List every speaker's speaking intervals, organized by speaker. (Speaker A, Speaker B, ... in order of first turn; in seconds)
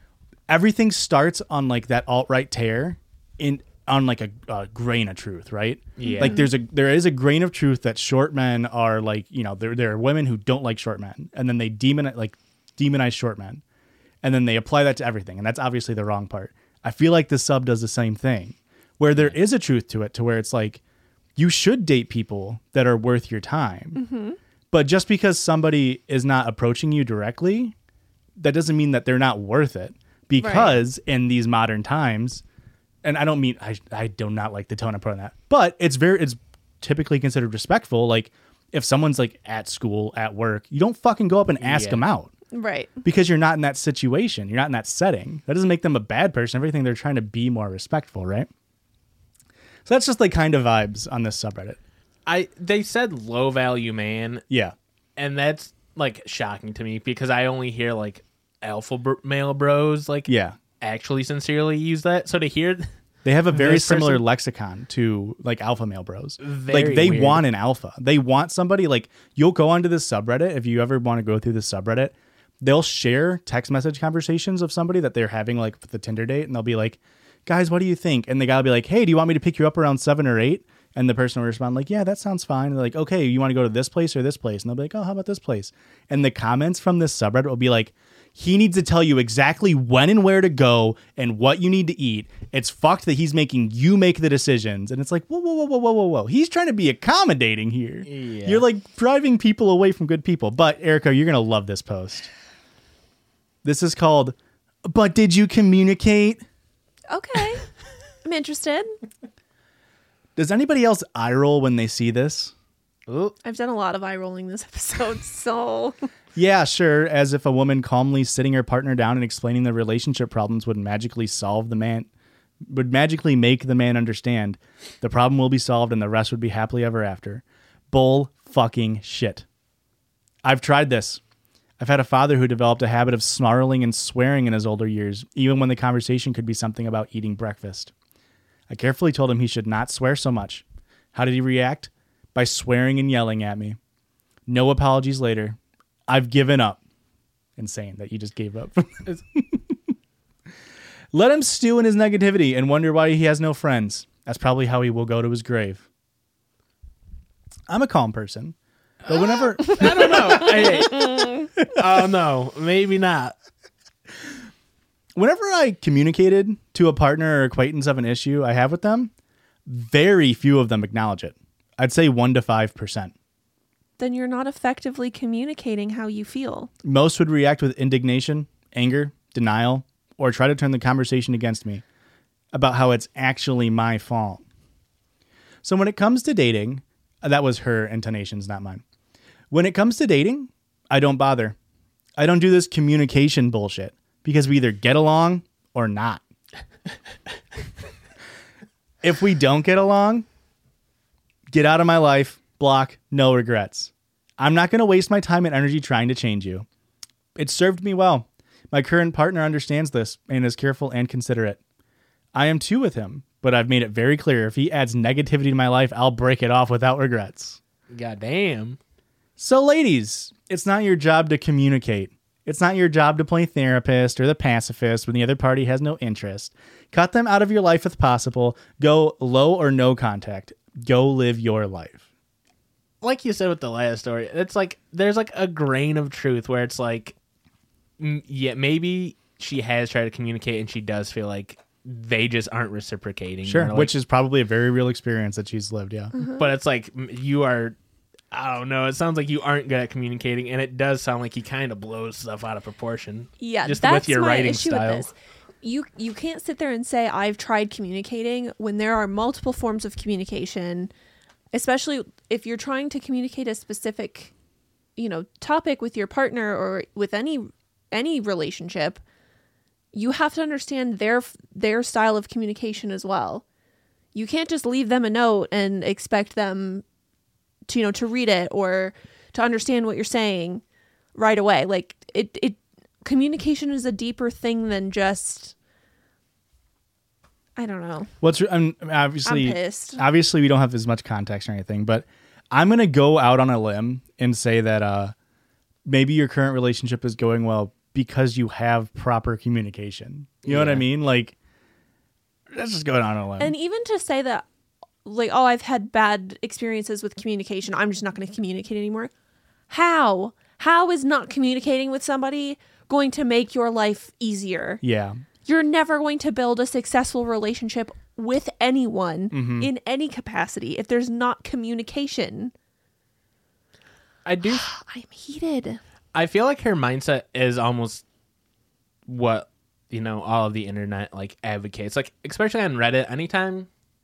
Speaker A: 0.5-13.6, 14.2-20.8, 21.4-24.0, 24.7-27.7, 28.4-32.4, 33.0-42.3, 43.0-48.5, 49.8-51.8, 54.5-54.7, 60.3-60.6, 63.2-102.3, 103.6-106.4, 110.4-112.5, 116.3-122.1, 122.6-129.4, 130.4-131.2, 131.8-137.9, 138.7-143.8, 144.5-146.8, 147.6-149.8, 151.1-155.8, 157.7-158.6, 159.1-161.7, 165.2-169.1, 169.7-173.1, 176.8-181.8, 182.5-184.4, 185.6-188.8, 189.5-191.6, 192.2-196.2, 199.0-200.2, 201.5-206.7, 207.4-211.6, 212.3-217.6, 219.4-232.0, 243.4-246.1, 288.2-295.1, 295.9-301.3, 302.5-303.6, 314.8-315.2, 319.3-319.7
Speaker B: 6.0-6.4, 19.1-19.4, 41.6-42.0, 52.2-54.4, 55.2-60.3, 60.8-62.9, 63.5-64.2, 66.4-67.4, 98.0-98.6, 113.1-113.3, 159.1-163.3, 217.9-218.8, 233.0-237.1, 238.0-243.9, 246.4-247.7, 248.3-255.1, 300.4-300.8, 324.2-324.6, 326.1-328.0, 329.1-333.7
Speaker C: 6.0-6.5, 23.9-24.4, 30.4-30.8, 42.5-43.0, 107.1-107.7, 108.2-108.9, 113.4-116.0, 160.9-161.4, 174.0-176.7, 246.1-246.5, 253.4-260.9, 261.5-264.3, 264.9-269.0, 269.9-273.4, 274.1-276.8, 277.7-280.6, 281.1-285.6, 287.6-288.1, 289.2-290.0, 303.4-304.4, 305.1-309.1, 309.7-314.8, 315.4-322.5, 324.5-325.8